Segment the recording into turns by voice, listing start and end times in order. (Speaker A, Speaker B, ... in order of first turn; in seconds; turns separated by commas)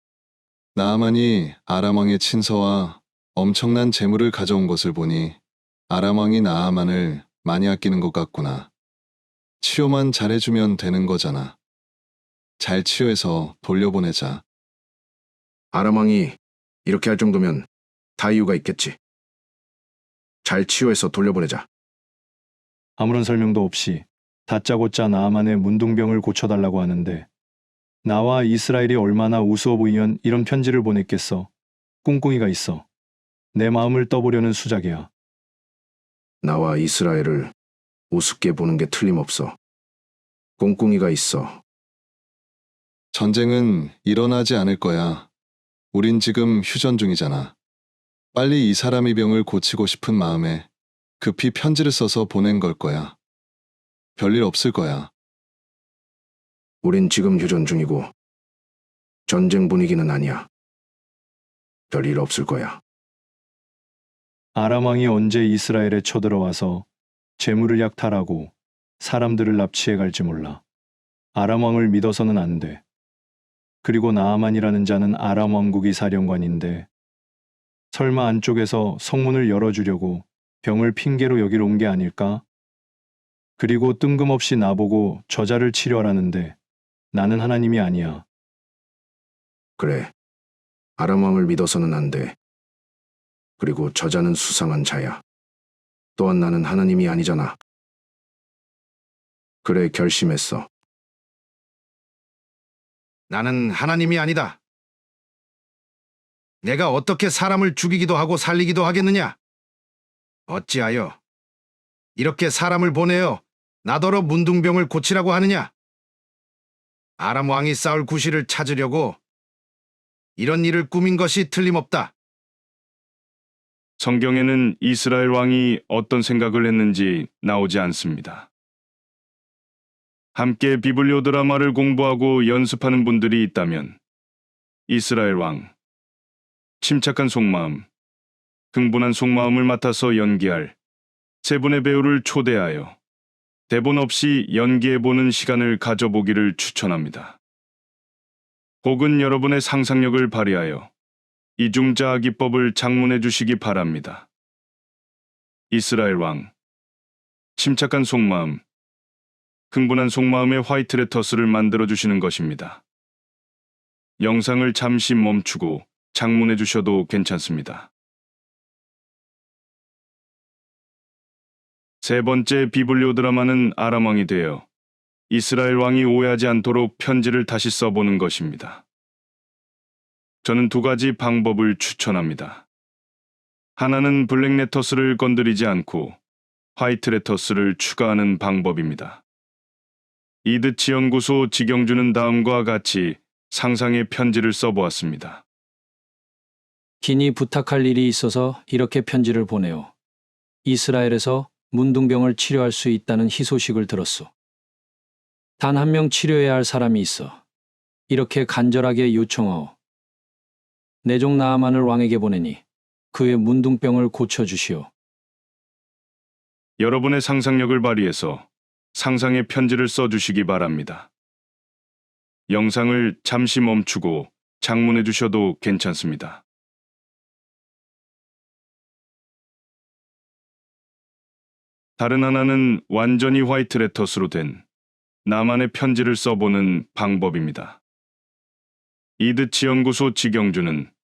Speaker A: 0.8-8.7, Speaker A: 9.6-11.6, Speaker A: 12.6-14.4, Speaker B: 15.7-19.0, Speaker B: 20.4-21.7, Speaker C: 23.0-27.3, Speaker C: 28.0-31.5, Speaker C: 32.0-32.9, Speaker C: 33.5-35.1, Speaker B: 36.4-37.5, Speaker B: 38.1-39.6, Speaker B: 40.6-41.6, Speaker A: 43.1-45.3, Speaker A: 45.9-47.5, Speaker A: 48.3-50.7, Speaker A: 51.2-53.1, Speaker A: 54.1-55.1, Speaker B: 56.8-58.1, Speaker B: 59.3-60.5, Speaker B: 61.9-62.8, Speaker C: 64.5-66.9, Speaker C: 67.4-70.6, Speaker C: 71.3-72.8, Speaker C: 73.8-76.9, Speaker C: 77.9-82.4, Speaker C: 83.6-86.6, Speaker C: 87.1-88.3, Speaker B: 89.8-90.1, Speaker B: 91.0-92.4, Speaker B: 93.6-95.2, Speaker B: 96.2-97.6, Speaker B: 99.6-100.7, Speaker B: 103.3-104.6, Speaker B: 106.6-109.4, Speaker B: 110.5-111.2, Speaker B: 112.2-115.7, Speaker B: 117.2-119.2, Speaker B: 120.4-122.1, Speaker D: 124.0-128.5, Speaker D: 130.3-134.0, Speaker D: 134.9-135.7, Speaker D: 136.8-137.9, Speaker D: 138.7-140.8, Speaker D: 141.4-142.9, Speaker D: 143.7-147.4, Speaker D: 148.8-150.9, Speaker D: 151.6-154.3, Speaker D: 155.7-156.5, Speaker D: 157.6-158.6, Speaker D: 159.7-162.8, Speaker D: 164.2-167.9, Speaker D: 172.0-174.7, Speaker D: 175.3-178.8, Speaker D: 180.4-182.6, Speaker D: 183.8-186.2, Speaker D: 186.8-189.2, Speaker D: 190.4-195.4, Speaker E: 197.0-199.9, Speaker E: 200.6-204.3, Speaker E: 205.6-207.4, Speaker E: 208.1-209.8, Speaker E: 211.0-214.9, Speaker D: 216.8-221.1, Speaker D: 222.5-226.4, Speaker D: 232.0-234.6, Speaker D: 235.2-237.8, Speaker D: 239.2-240.9